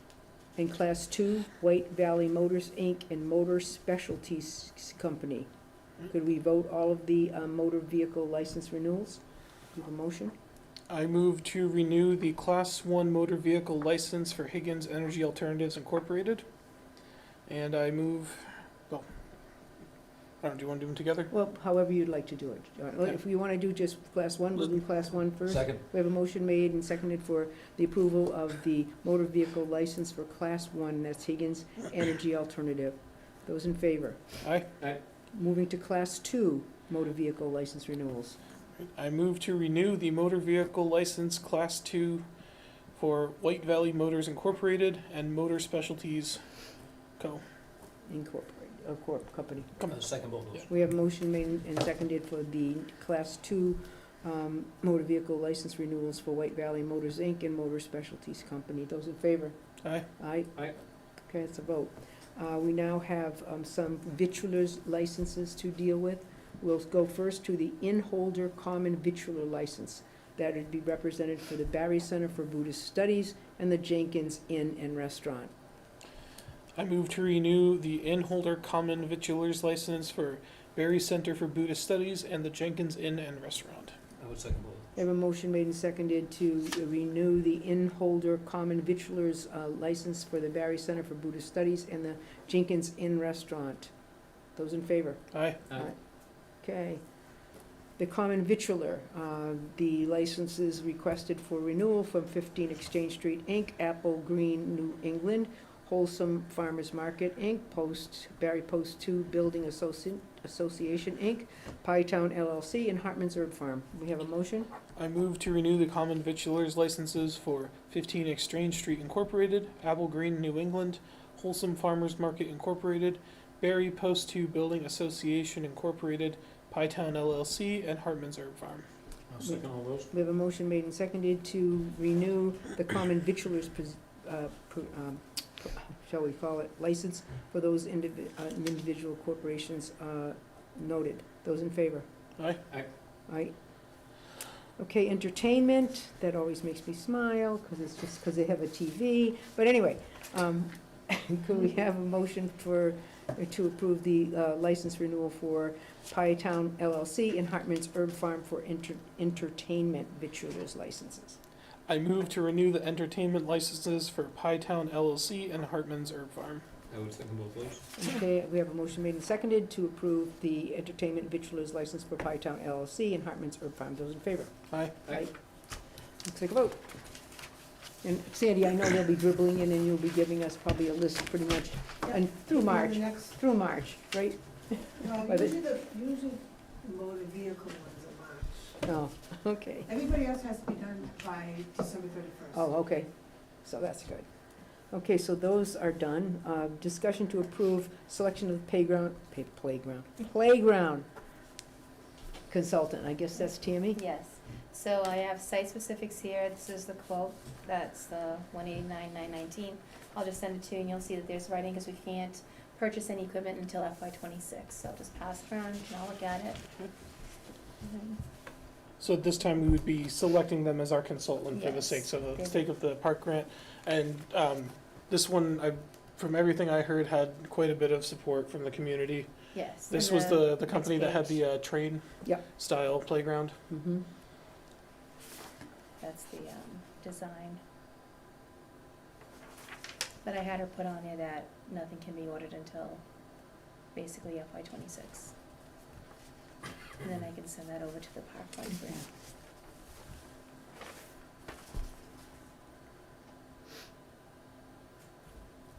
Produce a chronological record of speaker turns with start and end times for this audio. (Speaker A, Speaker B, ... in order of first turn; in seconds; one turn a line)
Speaker A: 0.6-5.5
Speaker A: 6.0-10.3
Speaker B: 10.9-16.4
Speaker B: 17.5-19.1
Speaker B: 20.4-21.3
Speaker A: 21.3-34.2
Speaker C: 25.5-25.8
Speaker B: 34.4-34.7
Speaker A: 35.3-38.4
Speaker B: 39.0-42.2
Speaker B: 42.9-46.4
Speaker A: 48.1-49.7
Speaker C: 49.9-50.7
Speaker A: 50.7-59.6
Speaker A: 60.2-60.6
Speaker A: 61.2-75.5
Speaker B: 76.8-84.0
Speaker C: 84.2-84.9
Speaker A: 85.0-93.9
Speaker A: 94.6-96.0
Speaker B: 95.3-95.6
Speaker A: 96.6-97.0
Speaker A: 98.0-114.7
Speaker B: 115.0-128.8
Speaker C: 129.3-130.1
Speaker A: 129.4-142.1
Speaker B: 142.4-142.6
Speaker A: 143.3-143.5
Speaker A: 144.8-161.4
Speaker B: 161.9-166.6
Speaker C: 166.9-167.8
Speaker A: 168.0-175.3
Speaker B: 174.7-175.0
Speaker A: 176.2-177.0
Speaker A: 178.0-185.7
Speaker D: 185.6-188.5
Speaker A: 188.8-190.0
Speaker D: 190.0-192.4
Speaker A: 192.5-193.1
Speaker A: 193.6-194.3
Speaker A: 194.9-201.1
Speaker A: 202.5-204.0
Speaker E: 203.9-216.6
Speaker E: 217.8-218.2
Speaker B: 219.0-229.3
Speaker E: 221.5-222.6
Speaker E: 229.5-231.4
Speaker B: 229.9-233.5
Speaker A: 233.7-234.1
Speaker E: 236.0-237.6
Speaker E: 240.2-243.0
Speaker E: 243.9-245.3
Speaker E: 247.0-249.1